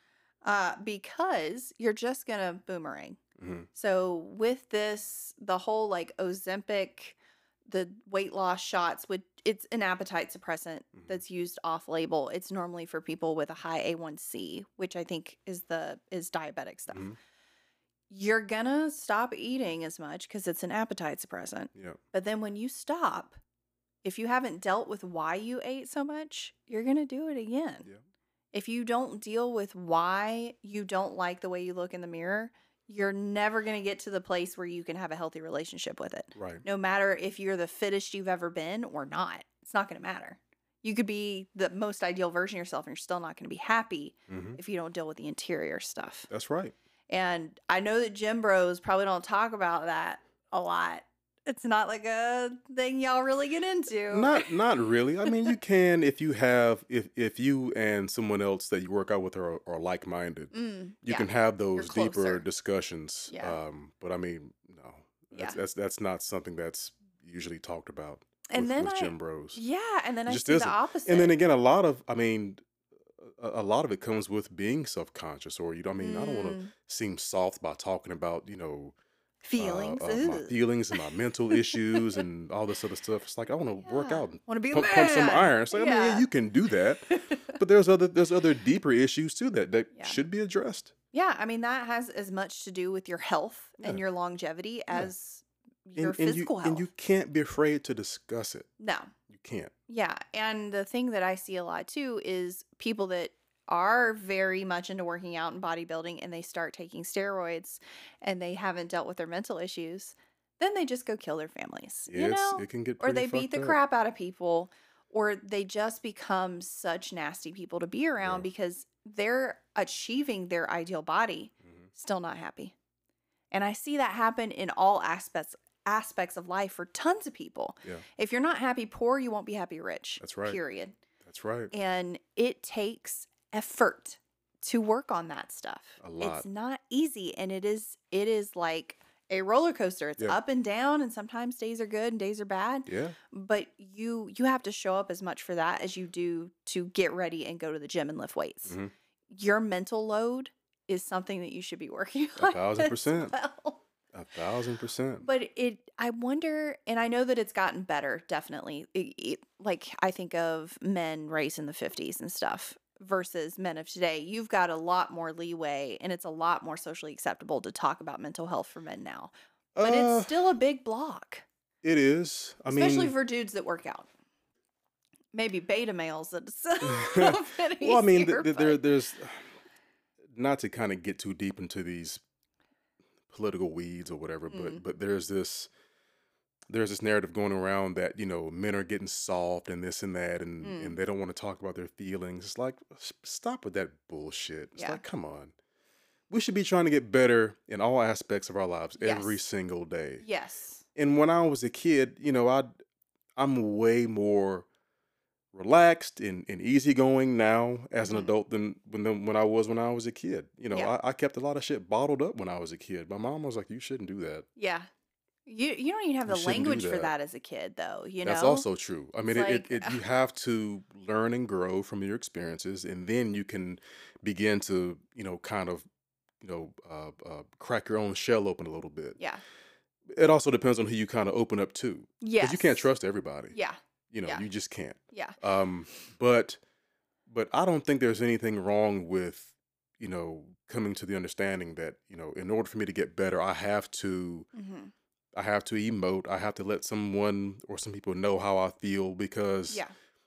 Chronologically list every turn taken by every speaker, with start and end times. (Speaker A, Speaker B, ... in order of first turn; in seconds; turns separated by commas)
Speaker A: 0.4-3.2, Speaker B: 3.4-3.7, Speaker A: 3.7-7.2, Speaker A: 7.7-17.1, Speaker A: 18.1-23.4, Speaker A: 24.0-27.9, Speaker A: 28.5-46.3, Speaker B: 36.4-36.6, Speaker B: 44.3-44.6, Speaker B: 46.3-46.7, Speaker A: 47.1-54.5, Speaker B: 54.1-69.6, Speaker A: 60.5-62.4, Speaker A: 63.3-63.6, Speaker A: 65.3-65.6, Speaker A: 68.5-71.3, Speaker B: 70.3-72.6, Speaker B: 73.2-78.9, Speaker A: 76.0-76.7, Speaker A: 79.4-82.2, Speaker B: 79.6-90.9, Speaker A: 83.8-86.3, Speaker A: 87.1-87.6, Speaker A: 91.1-96.9, Speaker B: 96.0-98.7, Speaker A: 98.8-99.1, Speaker B: 99.3-99.7, Speaker A: 99.9-122.7, Speaker B: 112.1-113.8, Speaker B: 118.2-118.5, Speaker A: 123.5-131.0, Speaker B: 130.2-130.6, Speaker B: 131.2-131.7, Speaker A: 131.7-148.8, Speaker B: 136.0-136.4, Speaker B: 142.9-143.2, Speaker A: 149.3-153.8, Speaker B: 152.4-153.3, Speaker B: 154.1-155.2, Speaker A: 155.2-171.4, Speaker B: 169.7-170.3, Speaker B: 171.8-173.1, Speaker A: 172.7-174.1, Speaker A: 175.3-178.8, Speaker B: 176.8-179.5, Speaker B: 180.3-182.2, Speaker B: 183.3-185.7, Speaker A: 184.5-184.8, Speaker B: 186.7-195.5, Speaker A: 190.6-190.9, Speaker A: 194.8-195.0, Speaker B: 196.3-200.2, Speaker A: 199.0-199.4, Speaker A: 200.2-200.8, Speaker B: 200.9-202.7, Speaker B: 203.3-204.7, Speaker B: 205.5-214.4, Speaker A: 208.0-208.3, Speaker A: 214.6-214.9, Speaker A: 215.4-218.6, Speaker B: 216.2-217.1, Speaker B: 218.2-225.8, Speaker A: 219.3-220.0, Speaker B: 226.4-229.2, Speaker B: 230.1-233.6, Speaker A: 232.2-232.9, Speaker A: 233.5-234.4, Speaker B: 234.1-236.6, Speaker A: 235.1-235.4, Speaker B: 237.3-244.5, Speaker A: 244.5-244.9, Speaker B: 245.3-249.8